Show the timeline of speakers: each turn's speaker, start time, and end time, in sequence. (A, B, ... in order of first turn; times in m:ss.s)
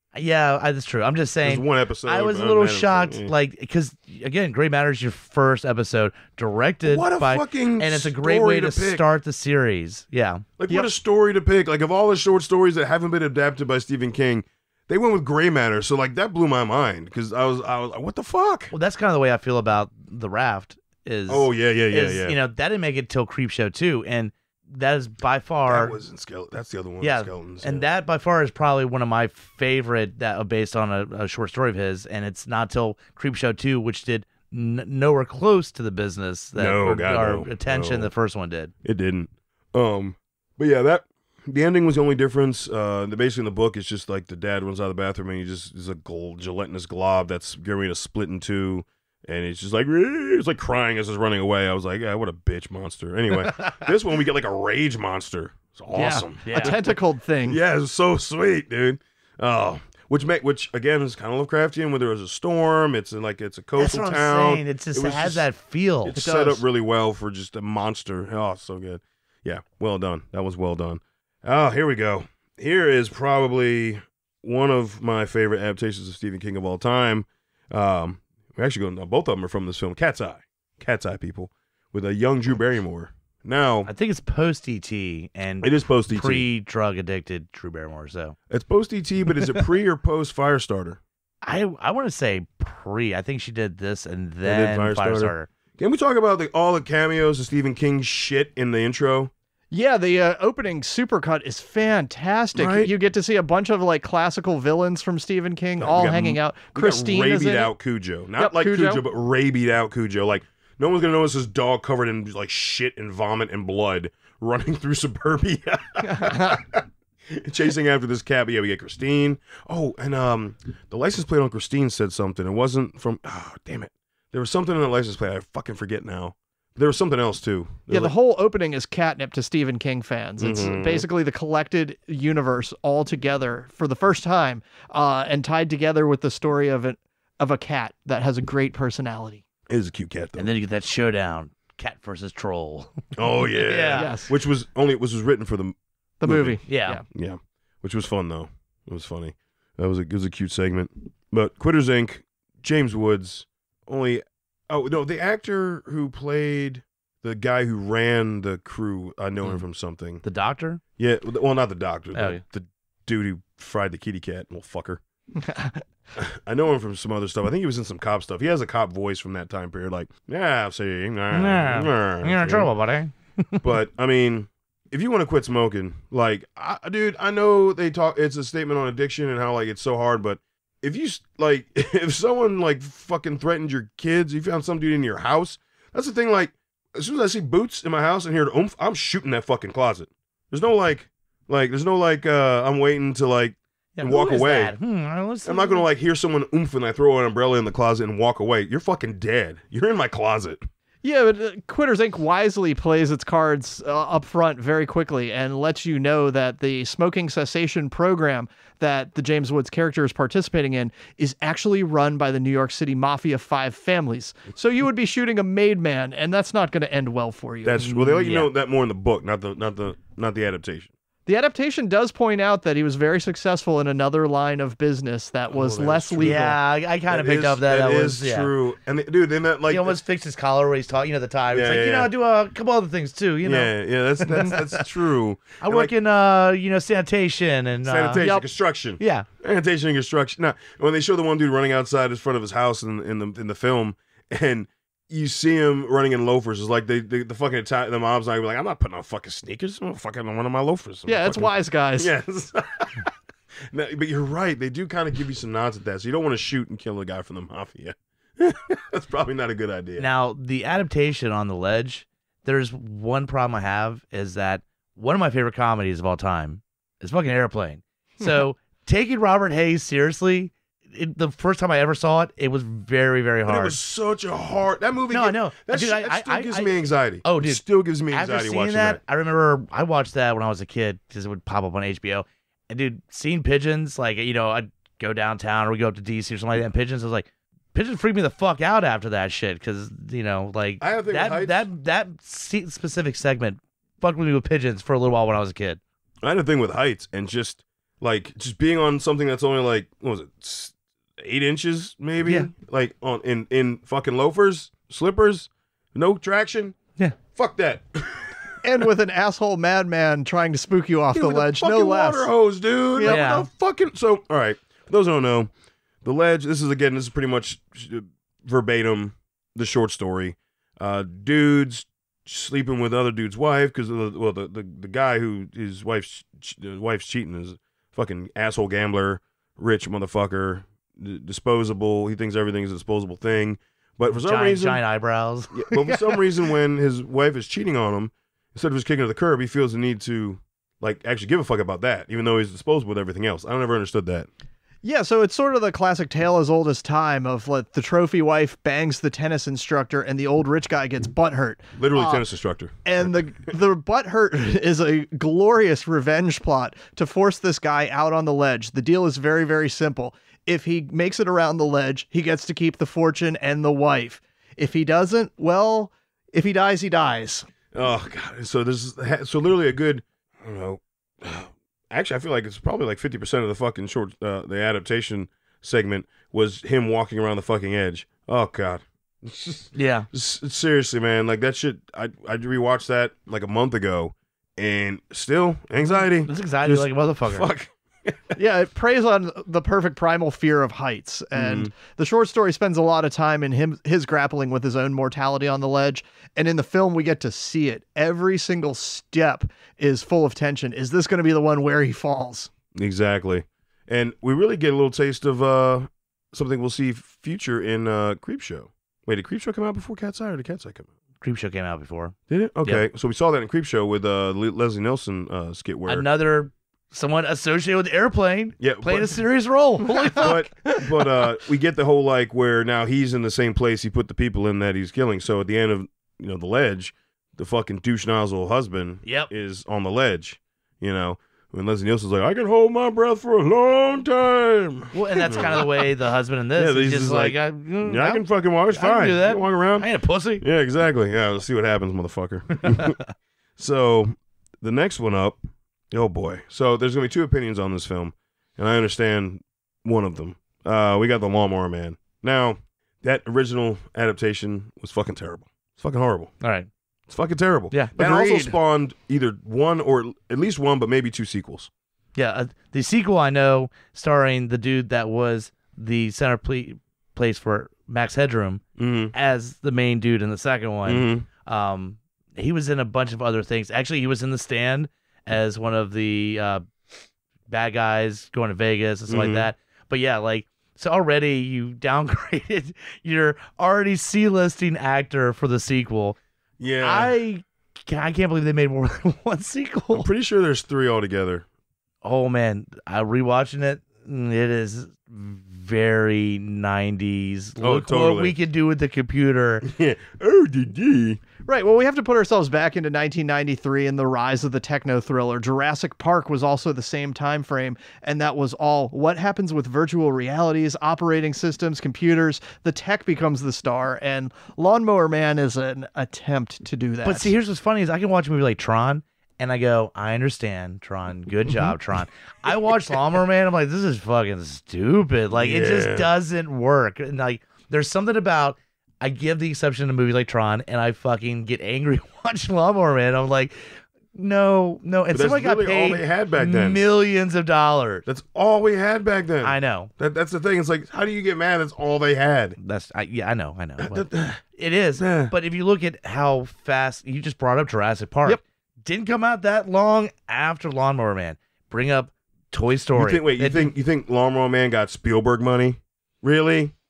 0:00.1-0:10.4 A
0:01.4-0:03.3 B
0:06.8-0:09.0 B
0:10.6-0:18.7 B
0:18.7-0:26.0 A
0:21.3-0:22.4 B
0:25.7-0:27.8 B
0:27.0-0:38.7 A
0:36.6-0:38.1 B
0:38.8-0:56.8 B
0:55.9-0:57.6 C
0:56.4-0:56.8 A
0:57.4-1:05.4 B
1:03.8-1:06.2 A
1:06.0-1:23.9 B
1:06.2-1:06.6 C
1:23.8-1:28.4 A
1:25.6-1:26.4 B
1:28.5-1:31.0 B
1:31.4-1:35.5 A
1:34.4-1:39.3 B
1:39.7-1:47.7 C
1:42.5-1:42.9 B
1:45.8-2:08.1 B
1:48.4-1:49.0 C
1:56.0-1:56.6 C
2:07.9-2:19.4 C
2:10.4-2:11.0 B
2:19.7-2:20.5 B
2:20.4-2:23.0 A
2:23.1-2:26.6 B
2:23.6-2:24.2 A
2:23.9-2:24.3 C
2:26.2-2:27.0 C
2:26.6-2:27.0 A
2:27.1-2:40.2 B
2:40.2-2:40.8 A
2:41.0-2:45.0 B
2:42.1-2:42.4 A
2:45.4-2:45.8 C
2:46.2-2:52.7 B
2:51.3-2:53.6 A
2:53.6-3:14.7 B
3:14.0-3:15.9 A
3:15.4-3:20.7 B
3:21.0-3:37.9 C
3:37.6-3:40.9 B
3:37.8-3:38.5 A
3:41.2-3:46.6 C
3:45.5-3:46.5 B
3:46.2-3:48.5 A
3:47.1-3:50.0 B
3:49.7-3:54.8 A
3:51.5-3:52.1 B
3:53.4-3:55.9 B
3:55.6-3:58.2 A
3:57.8-4:13.1 B
3:58.2-3:58.4 C
3:59.0-3:59.2 A
4:11.0-4:12.1 C
4:13.7-4:20.1 B
4:20.0-4:33.8 A
4:33.4-4:39.0 B
4:35.1-4:55.8 A
4:50.8-4:51.6 B
4:56.2-5:06.8 B
5:02.2-5:02.5 A
5:07.3-5:08.3 B
5:08.6-5:12.3 C
5:11.1-5:15.5 B
5:12.9-5:13.2 C
5:13.1-5:13.5 A
5:16.0-5:34.8 B
5:34.1-5:36.0 A
5:35.5-5:44.3 B
5:44.8-5:52.2 C
5:51.8-5:53.5 B
5:52.8-6:07.5 C
6:07.7-6:28.4 B
6:19.7-6:20.1 A
6:25.9-6:27.5 A
6:28.4-6:42.5 C
6:31.3-6:31.7 B
6:42.7-6:50.9 B
6:51.2-6:52.8 A
6:52.3-6:56.1 B
6:55.9-7:00.4 A
6:58.6-6:59.2 B
7:00.0-7:00.8 C
7:00.2-7:15.7 B
7:09.0-7:09.3 A
7:14.9-7:20.4 A
7:16.6-7:19.8 B
7:20.4-7:23.0 B
7:22.8-7:23.0 A
7:23.6-7:36.3 B
7:36.4-7:36.7 A
7:37.1-7:41.7 B
7:37.7-7:38.6 A
7:42.2-7:56.6 A
7:48.8-7:49.1 B
7:50.8-7:51.2 B
7:57.5-8:06.2 A
7:59.1-7:59.5 B
8:06.6-8:07.1 B
8:06.8-8:10.1 A
8:09.9-8:11.4 B
8:12.0-8:19.6 A
8:17.6-8:18.3 B
8:19.6-8:21.2 B
8:21.4-8:37.3 C
8:37.0-8:58.0 A
8:45.3-8:46.1 B
8:55.1-8:56.8 B
8:58.0-9:02.6 B
8:59.4-8:59.9 A
9:02.6-9:13.7 A
9:03.8-9:04.4 B
9:05.0-9:05.3 B
9:13.0-9:16.7 B